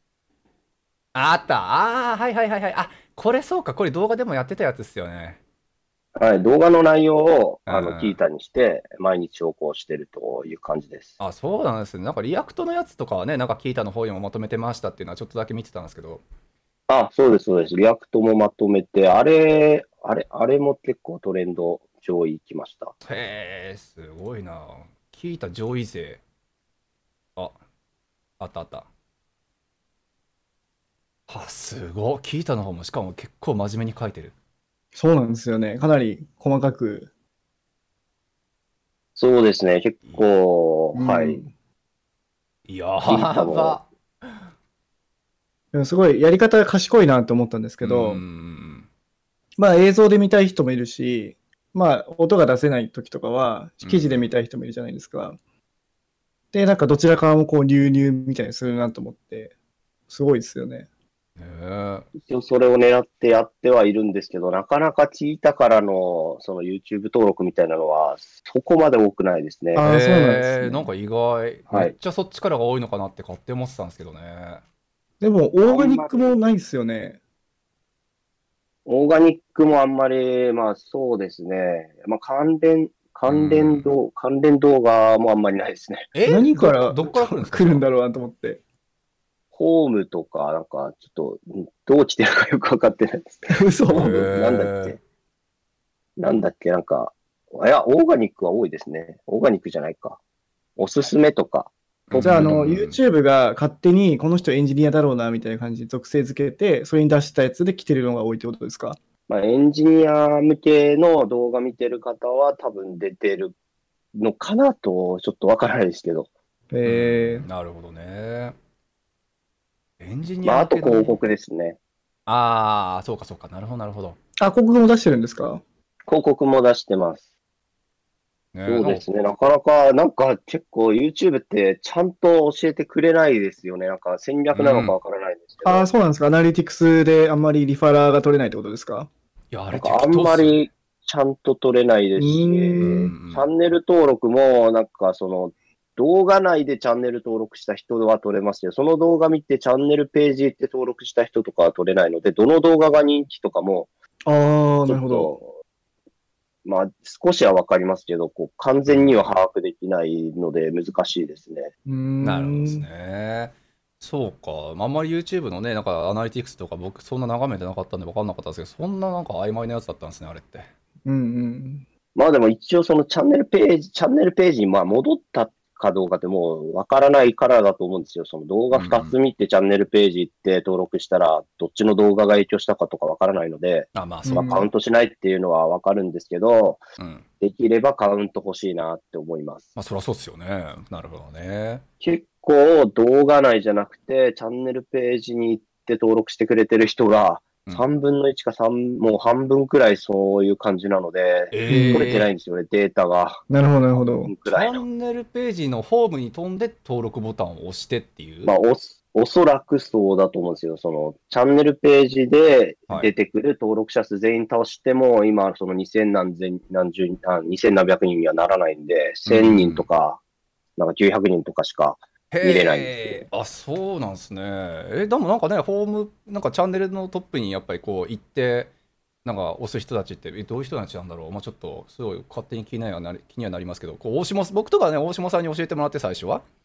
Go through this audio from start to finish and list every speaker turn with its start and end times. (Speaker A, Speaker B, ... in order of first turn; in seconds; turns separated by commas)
Speaker A: 1.1-5.4, Speaker B: 6.1-11.2, Speaker A: 7.7-8.2, Speaker A: 11.2-16.2, Speaker B: 16.9-22.9, Speaker A: 23.0-26.2, Speaker A: 28.4-28.9, Speaker A: 31.3-34.3, Speaker C: 34.9-37.1, Speaker B: 39.1-41.4, Speaker C: 40.9-41.5, Speaker A: 42.7-43.9, Speaker B: 43.0-43.8, Speaker C: 45.7-48.2, Speaker A: 47.8-48.9, Speaker C: 49.6-55.4, Speaker A: 53.8-54.3, Speaker C: 56.5-59.5, Speaker C: 60.1-60.9, Speaker A: 61.4-62.1, Speaker B: 62.2-69.9, Speaker C: 69.7-70.9, Speaker A: 69.8-74.6, Speaker B: 71.7-71.9, Speaker C: 75.2-77.2, Speaker B: 75.6-76.4, Speaker B: 78.8-86.1, Speaker A: 83.3-83.9, Speaker A: 86.1-87.8, Speaker C: 86.2-88.6, Speaker B: 89.5-95.0, Speaker C: 93.5-94.3, Speaker A: 93.9-95.0, Speaker B: 96.2-100.2, Speaker B: 100.8-102.5, Speaker A: 102.1-103.0, Speaker C: 102.2-109.0, Speaker B: 109.3-113.5, Speaker B: 114.1-116.3, Speaker C: 116.7-117.5, Speaker A: 116.8-118.5, Speaker A: 120.0-121.2, Speaker B: 120.4-121.8, Speaker A: 122.3-124.2, Speaker C: 124.4-125.6, Speaker B: 126.1-127.3, Speaker A: 128.5-129.0, Speaker B: 128.7-135.9, Speaker A: 134.5-134.9, Speaker C: 135.6-139.1, Speaker A: 139.5-140.6, Speaker B: 139.7-153.9, Speaker C: 142.2-143.1, Speaker A: 142.8-143.4, Speaker C: 154.2-155.3, Speaker B: 154.8-155.6, Speaker B: 156.6-161.7, Speaker A: 158.9-159.3, Speaker C: 161.8-162.8, Speaker A: 162.2-170.7, Speaker C: 171.1-171.8, Speaker B: 172.2-186.8, Speaker A: 178.7-179.1, Speaker A: 183.9-184.6, Speaker C: 184.2-184.7, Speaker A: 187.0-187.2, Speaker B: 187.4-189.7, Speaker A: 189.8-191.8, Speaker B: 192.0-203.4, Speaker A: 201.5-202.3, Speaker C: 201.7-202.1, Speaker C: 203.5-204.3, Speaker B: 204.2-204.8, Speaker A: 204.4-208.5, Speaker B: 208.4-220.2, Speaker A: 219.2-219.8, Speaker B: 220.8-223.3, Speaker A: 222.3-228.7, Speaker A: 229.2-236.4